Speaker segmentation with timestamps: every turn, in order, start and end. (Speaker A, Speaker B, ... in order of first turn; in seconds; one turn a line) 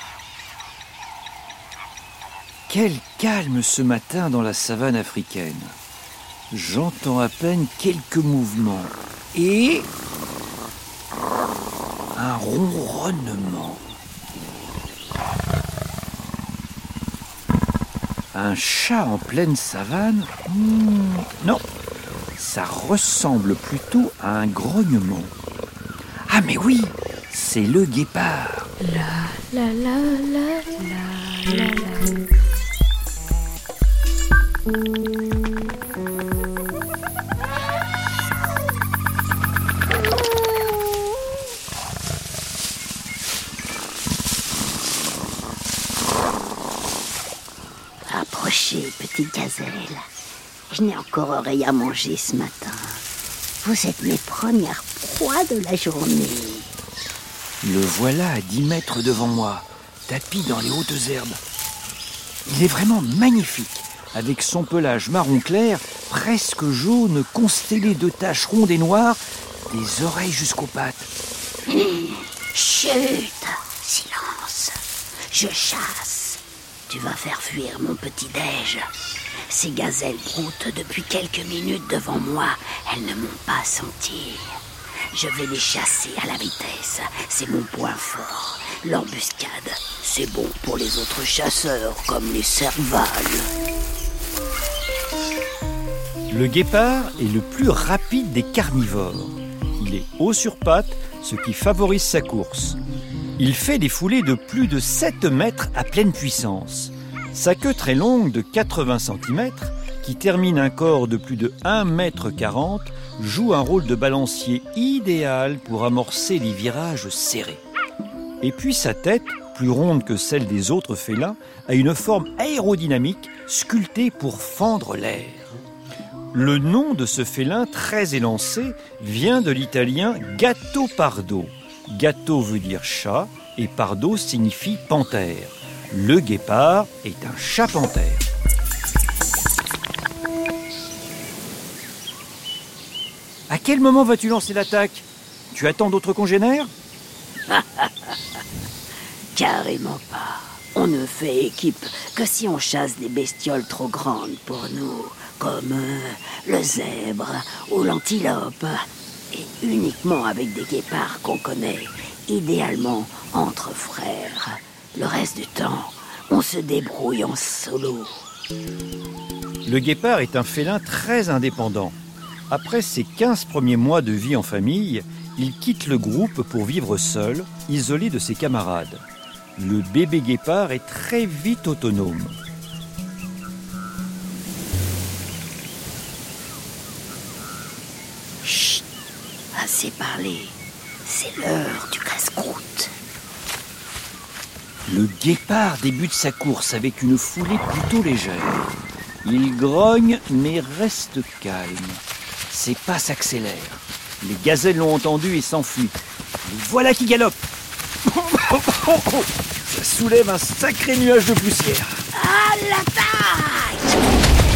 Speaker A: 2.7-5.8
Speaker A: 6.5-9.9
Speaker A: 12.2-13.8
Speaker A: 18.3-21.7
Speaker A: 22.4-25.3
Speaker A: 26.3-28.7
Speaker B: 28.9-30.2
Speaker C: 29.5-31.8
Speaker B: 30.9-32.1
Speaker C: 48.1-50.0
Speaker C: 50.7-53.0
Speaker C: 53.6-56.7
Speaker A: 57.6-61.4
Speaker A: 62.5-71.1
Speaker C: 71.7-74.8
Speaker C: 75.3-78.9
Speaker C: 79.5-84.6
Speaker C: 85.1-93.5
Speaker A: 96.3-102.8
Speaker A: 103.4-117.6
Speaker A: 118.4-125.6
Speaker A: 126.3-138.2
Speaker A: 143.5-146.7
Speaker C: 147.5-148.1
Speaker C: 149.3-168.2
Speaker A: 169.7-172.0
Speaker A: 172.5-179.0
Speaker A: 179.6-182.4
Speaker C: 188.4-188.8
Speaker C: 189.5-192.9
Speaker A: 194.9-198.7
Speaker A: 199.2-207.4
Speaker A: 208.1-212.0
Speaker C: 212.1-214.0